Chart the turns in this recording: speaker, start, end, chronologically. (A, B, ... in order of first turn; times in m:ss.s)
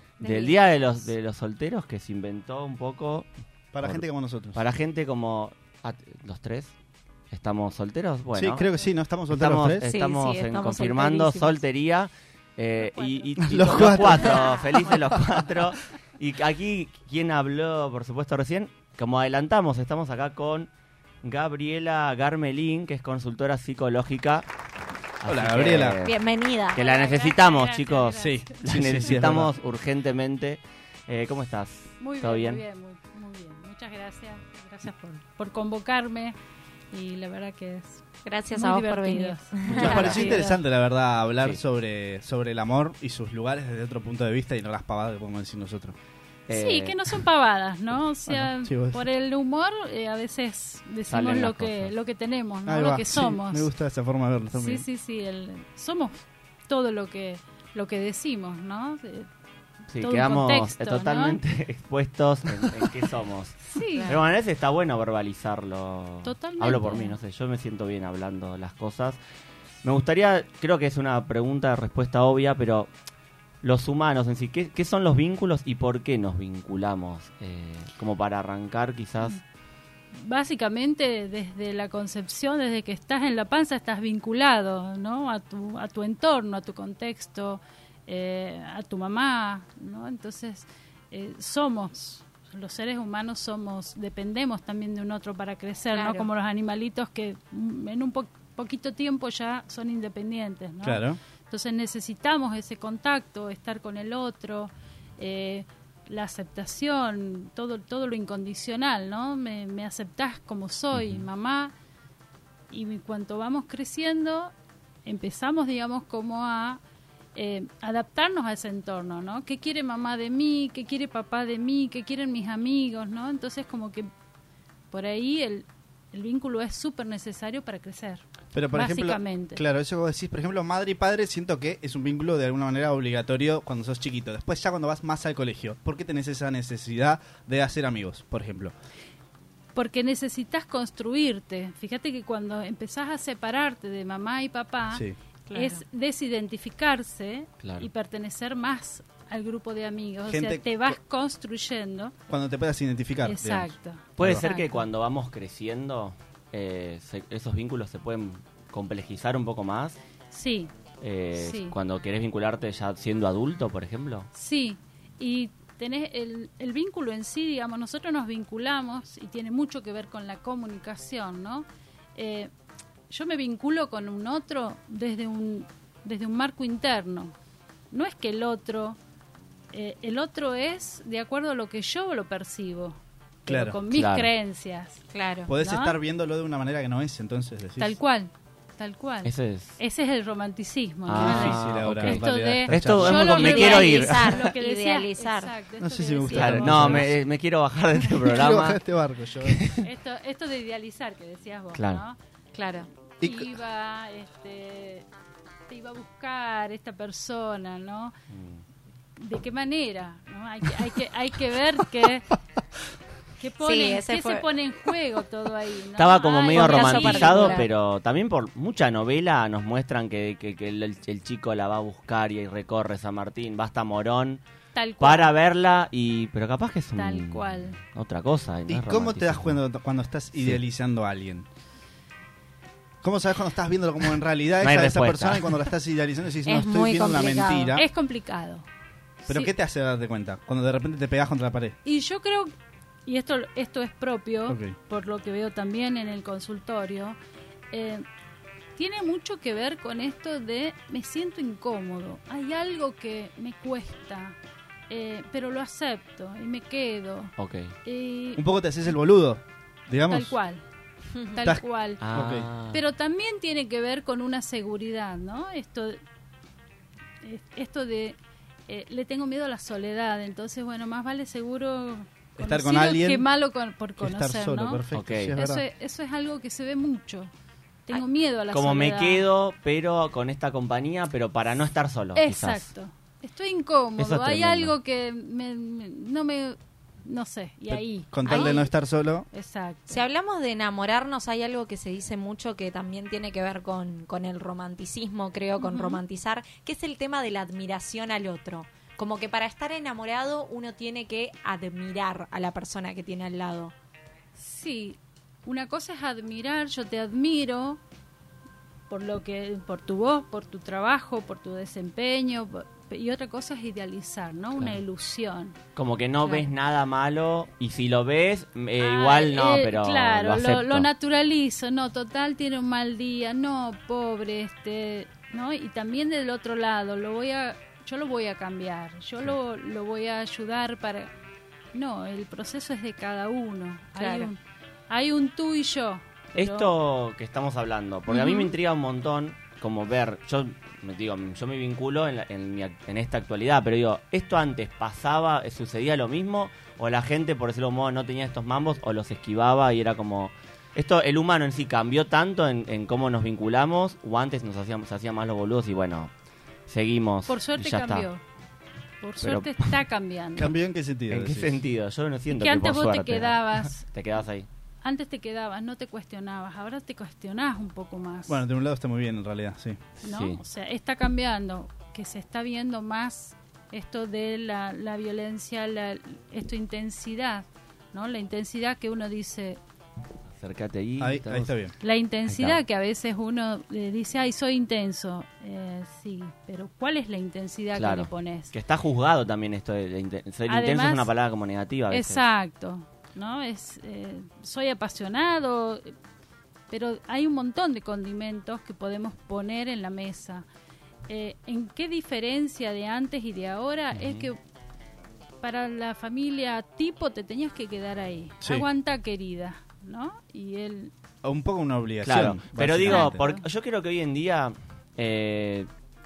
0:00.2-0:03.3 A
0:00.2-0:01.1 B
0:03.7-0:04.6 C
0:03.8-0:06.7 A
0:07.3-0:08.6 A
0:08.3-0:09.8 C
0:09.3-0:20.7 A
0:09.8-0:11.6 B
0:12.8-0:15.2 D
0:13.4-0:14.3 C
0:14.2-0:14.6 B
0:15.0-0:15.2 C
0:21.2-0:24.4 A
0:25.2-0:26.2 A
0:25.2-0:26.0 C
0:26.0-0:26.9 B
0:26.7-0:32.6 A
0:26.8-0:29.2 D
0:28.2-0:29.5 C
0:32.0-0:36.3 D
0:36.9-0:40.6 D
0:38.2-0:40.4 B
0:39.7-0:40.3 A
0:39.7-0:46.0 C
0:46.5-0:47.0 A
0:46.5-0:53.7 D
0:48.3-0:49.0 C
0:51.1-0:51.9 A
0:52.6-0:54.8 C
0:54.5-0:59.3 D
0:59.9-1:09.2 A
1:00.0-1:01.4 D
1:03.6-1:04.2 D
1:06.2-1:07.2 D
1:09.8-1:12.9 A
1:13.6-1:19.4 A
1:20.1-1:51.7 D
1:35.9-1:36.3 B
1:40.8-1:41.2 C
1:50.9-1:51.2 A
1:52.7-1:54.5 D
1:55.0-1:56.8 D
1:57.3-2:04.1 D
2:04.9-2:09.6 D
2:08.5-2:18.7 C
2:19.7-2:32.1 D
2:24.9-2:25.2 C
2:25.5-2:25.8 B
2:27.6-2:27.9 A
2:30.2-2:31.0 C
2:32.3-2:34.5 C
2:33.2-2:34.8 D
2:34.2-2:40.0 A
2:40.3-2:40.7 D
2:41.0-2:44.3 A
2:41.3-2:41.8 D
2:44.3-2:52.5 D
2:53.1-2:57.3 D
2:57.9-2:59.0 D
2:59.7-3:05.0 D
3:03.5-3:03.8 C
3:03.9-3:04.3 A
3:05.1-3:05.5 B
3:05.5-3:08.0 C
3:05.6-3:05.9 D
3:07.8-3:17.1 D
3:09.2-3:09.8 A
3:11.1-3:14.5 A
3:11.1-3:13.5 C
3:13.2-3:15.5 B
3:15.8-3:17.2 C
3:16.3-3:18.8 A
3:18.1-3:19.7 C
3:19.5-3:19.8 A
3:19.8-3:22.2 D
3:21.7-3:22.0 A
3:22.5-3:22.9 B
3:23.2-3:23.6 C
3:23.2-3:25.0 D
3:25.7-3:28.1 D
3:28.3-3:28.6 A
3:29.2-3:32.3 D
3:33.4-3:37.6 D
3:33.6-3:34.5 B
3:36.0-3:44.4 A
3:36.5-3:37.6 B
3:44.7-3:45.3 D
3:45.0-3:49.6 A
3:47.0-3:47.8 D
3:48.7-3:51.4 C
3:53.0-3:57.8 C
3:54.6-3:55.6 A
3:56.4-3:57.8 B
3:57.7-3:58.6 D
3:59.2-3:59.5 D
3:59.3-4:01.8 C
4:01.8-4:02.5 D
4:03.0-4:07.2 D
4:04.5-4:04.8 C
4:07.7-4:08.0 D
4:08.8-4:14.4 D
4:14.9-4:17.3 D
4:17.4-4:17.7 A
4:17.8-4:18.4 D
4:18.4-4:20.4 C
4:20.1-4:20.6 D
4:21.1-4:21.5 B
4:21.3-4:22.0 D
4:21.4-4:22.5 C
4:22.0-4:22.8 A
4:22.7-4:26.0 D
4:27.2-4:28.2 D
4:28.7-4:37.3 D
4:32.4-4:33.3 C
4:34.0-4:35.6 C
4:34.9-4:35.3 A
4:37.9-4:39.3 D
4:38.5-4:42.7 A
4:42.1-4:48.6 D
4:44.0-4:44.7 A
4:47.7-4:49.2 C
4:48.2-4:48.7 B
4:49.3-4:50.0 D
4:49.9-5:03.7 B
4:55.6-4:56.0 D
5:04.4-5:07.8 D
5:08.9-5:15.6 D
5:15.8-5:20.9 A
5:18.8-5:31.1 D
5:31.7-5:34.4 D
5:33.9-5:34.3 B
5:34.9-5:36.7 D
5:36.3-5:56.1 A
5:38.1-5:38.5 B
5:56.7-5:58.1 A
5:57.3-5:58.2 D
5:59.0-6:00.5 D
5:59.2-5:59.7 A
6:00.4-6:01.5 C
6:01.1-6:04.5 A
6:02.3-6:03.9 D
6:04.8-6:08.4 D
6:08.3-6:09.8 C
6:10.0-6:10.4 A
6:10.0-6:19.6 D
6:20.3-6:21.6 A
6:21.0-6:21.7 C
6:21.8-6:28.5 D
6:22.3-6:22.6 A
6:27.7-6:32.2 A
6:30.5-6:31.1 D
6:31.9-6:35.9 D
6:36.7-6:40.4 D
6:41.1-6:44.4 D
6:43.9-6:44.3 A
6:45.4-6:50.9 D
6:48.4-6:48.7 C
6:51.2-6:53.2 C
6:52.0-6:55.7 A
6:52.9-6:53.4 D